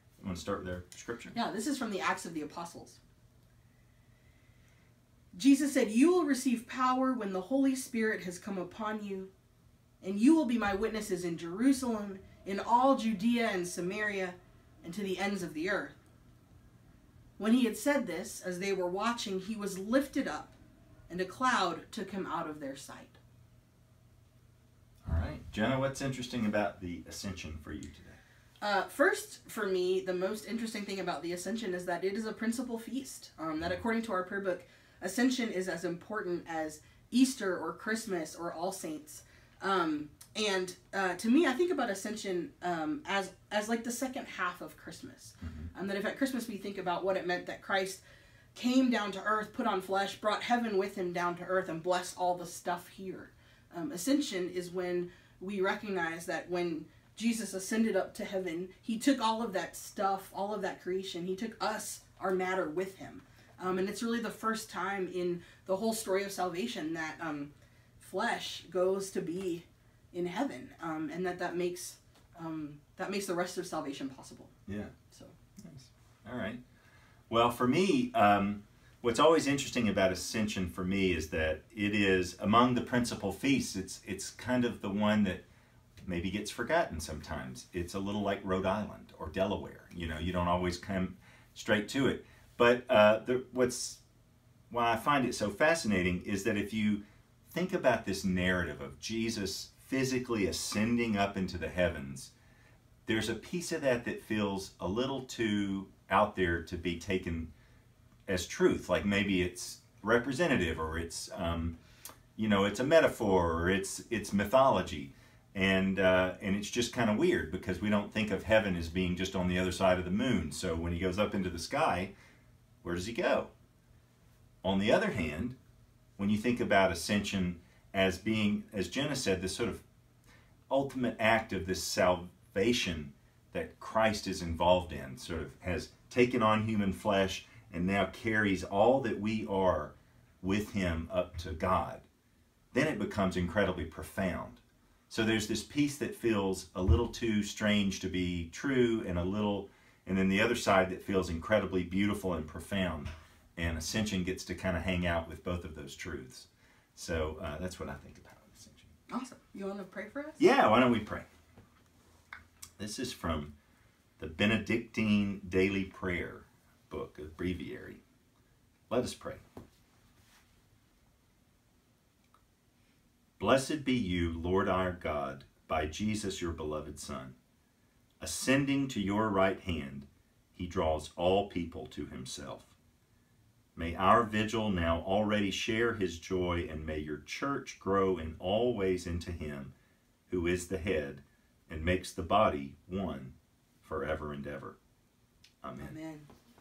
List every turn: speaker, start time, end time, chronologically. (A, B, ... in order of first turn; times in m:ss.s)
0:00.2-0:01.4 A
0:01.3-0:03.0 B
0:05.3-0:09.3 B
0:10.0-0:16.0 B
0:17.4-0:20.6 B
0:21.1-0:23.2 B
0:25.0-0:28.2 A
0:28.6-0:48.0 B
0:45.4-0:45.7 A
0:48.5-1:14.5 B
1:14.7-1:14.9 A
1:15.6-1:16.6 A
1:17.3-1:25.4 A
1:26.0-1:34.0 A
1:34.7-1:42.3 A
1:43.1-1:47.5 A
1:48.3-1:51.8 A
1:52.4-2:02.1 A
2:02.8-2:03.5 A
2:04.6-2:05.6 A
2:06.2-2:09.8 A
2:10.7-2:22.1 A
2:22.7-2:38.9 A
2:39.1-2:40.4 B
2:40.4-2:41.2 A
2:42.8-2:43.5 A
2:44.2-2:48.0 A
2:48.9-2:49.4 A
2:53.4-2:57.3 A
2:58.2-3:02.8 A
3:03.8-3:09.7 A
3:10.3-3:14.8 A
3:15.6-3:16.0 A
3:15.8-3:16.3 B